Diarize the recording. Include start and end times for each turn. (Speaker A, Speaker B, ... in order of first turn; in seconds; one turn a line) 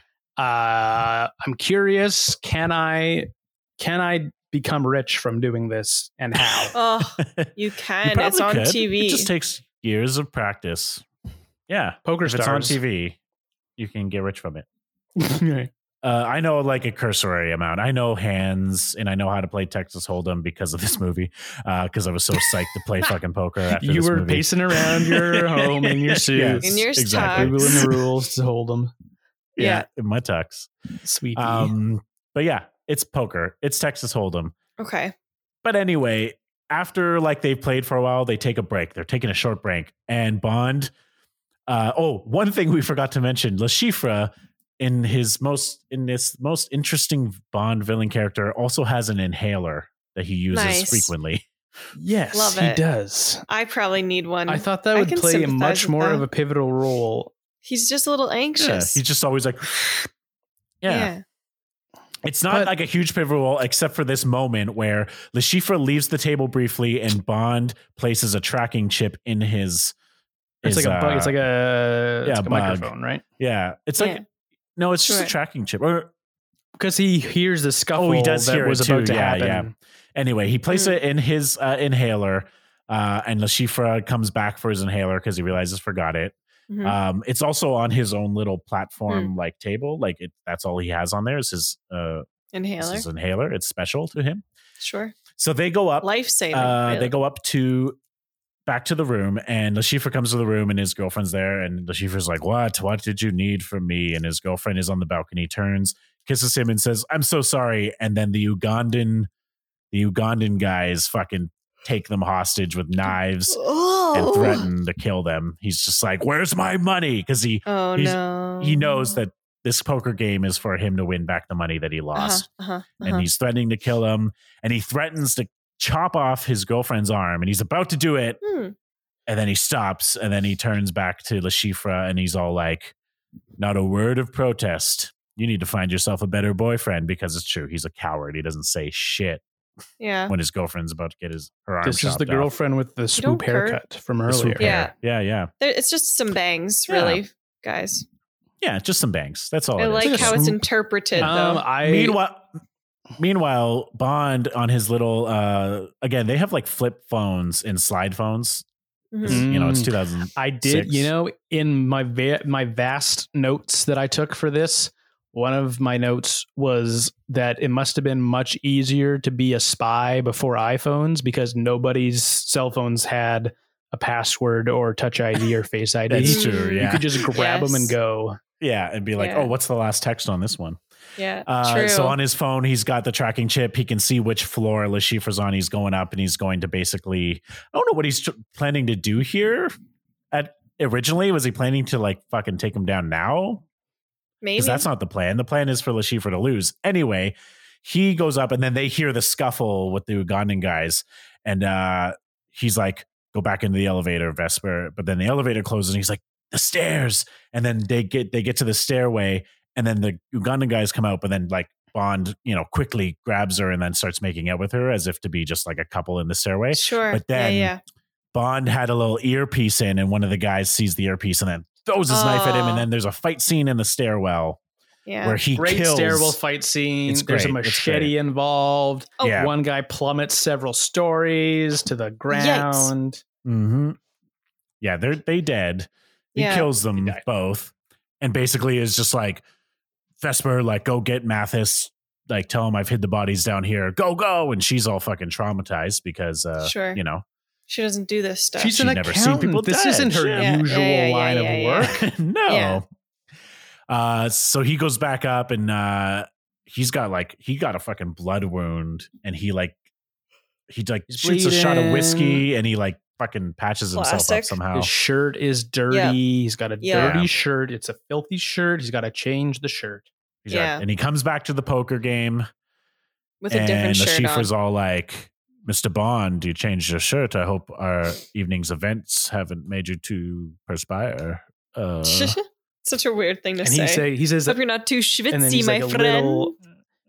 Speaker A: 0.4-6.8
Speaker B: 6.7-9.3
Speaker C: 7.2-7.5
Speaker C: 8.0-11.0
Speaker C: 11.7-13.2
Speaker A: 12.0-12.8
Speaker C: 13.8-14.7
Speaker A: 15.2-15.7
Speaker C: 16.0-28.0
Speaker A: 23.8-28.9
Speaker B: 26.6-27.7
Speaker C: 29.6-30.7
Speaker B: 29.6-29.8
Speaker A: 31.0-31.7
Speaker C: 31.3-34.5
Speaker B: 34.8-35.1
Speaker C: 35.6-40.9
Speaker C: 41.7-51.4
Speaker B: 50.5-51.1
Speaker A: 52.0-53.4
Speaker B: 52.3-52.8
Speaker B: 53.5-56.2
Speaker A: 54.5-57.3
Speaker B: 57.6-59.0
Speaker C: 58.6-59.9
Speaker C: 60.8-61.1
Speaker B: 60.9-61.2
Speaker C: 62.2-69.9
Speaker C: 70.6-71.4
Speaker A: 70.6-73.2
Speaker C: 72.2-74.2
Speaker B: 74.0-74.2
Speaker C: 74.8-76.1
Speaker B: 75.1-75.3
Speaker A: 76.8-79.7
Speaker C: 77.9-92.2
Speaker B: 80.7-81.0
Speaker B: 86.7-87.0
Speaker B: 92.5-93.0
Speaker C: 92.8-94.4
Speaker B: 94.8-95.2
Speaker C: 95.3-98.0
Speaker B: 96.0-97.1
Speaker C: 98.7-109.3
Speaker C: 109.9-113.6
Speaker B: 113.5-114.7
Speaker C: 114.1-122.5
Speaker B: 117.7-119.0
Speaker B: 122.1-123.2
Speaker C: 123.0-128.4
Speaker B: 128.4-128.7
Speaker C: 129.3-132.9
Speaker C: 133.6-139.4
Speaker B: 140.0-140.3
Speaker C: 140.3-142.5
Speaker A: 141.8-144.8
Speaker B: 143.2-143.8
Speaker C: 144.3-145.5
Speaker B: 144.6-144.9
Speaker B: 145.6-148.1
Speaker C: 146.9-147.2
Speaker C: 148.6-150.4
Speaker B: 149.8-151.7
Speaker A: 150.0-150.6
Speaker C: 151.2-152.5
Speaker A: 151.2-152.2
Speaker C: 153.2-158.6
Speaker B: 159.1-159.5
Speaker C: 159.2-161.1
Speaker A: 159.2-178.4
Speaker C: 176.1-177.2
Speaker B: 176.2-177.9
Speaker C: 178.6-180.8
Speaker B: 179.2-179.5
Speaker B: 181.2-182.2
Speaker C: 181.4-189.7
Speaker C: 190.3-193.6
Speaker B: 194.4-194.8
Speaker C: 194.6-217.7
Speaker B: 216.7-217.8
Speaker C: 218.3-224.6
Speaker B: 222.1-222.8
Speaker B: 225.1-225.4
Speaker C: 225.2-226.4
Speaker A: 225.6-233.2
Speaker C: 227.1-228.1
Speaker B: 229.2-229.5
Speaker C: 229.2-229.5
Speaker B: 232.3-232.9
Speaker C: 233.4-234.0
Speaker C: 234.8-239.4
Speaker B: 236.3-236.7
Speaker A: 236.9-237.2
Speaker C: 240.2-247.2
Speaker B: 246.6-247.0
Speaker B: 247.7-248.8
Speaker A: 248.6-252.0
Speaker C: 248.7-250.5
Speaker B: 250.3-251.9
Speaker C: 251.9-252.8
Speaker B: 252.5-252.8
Speaker C: 253.9-259.8
Speaker C: 260.7-264.9
Speaker A: 261.1-262.4
Speaker B: 263.9-264.6
Speaker A: 264.7-270.1
Speaker B: 265.9-266.2
Speaker B: 266.8-267.2
Speaker C: 266.9-267.3
Speaker C: 270.4-272.5
Speaker B: 270.5-270.8
Speaker B: 273.4-274.5
Speaker C: 273.5-282.4
Speaker B: 282.0-286.5
Speaker A: 283.6-284.6
Speaker A: 285.3-286.5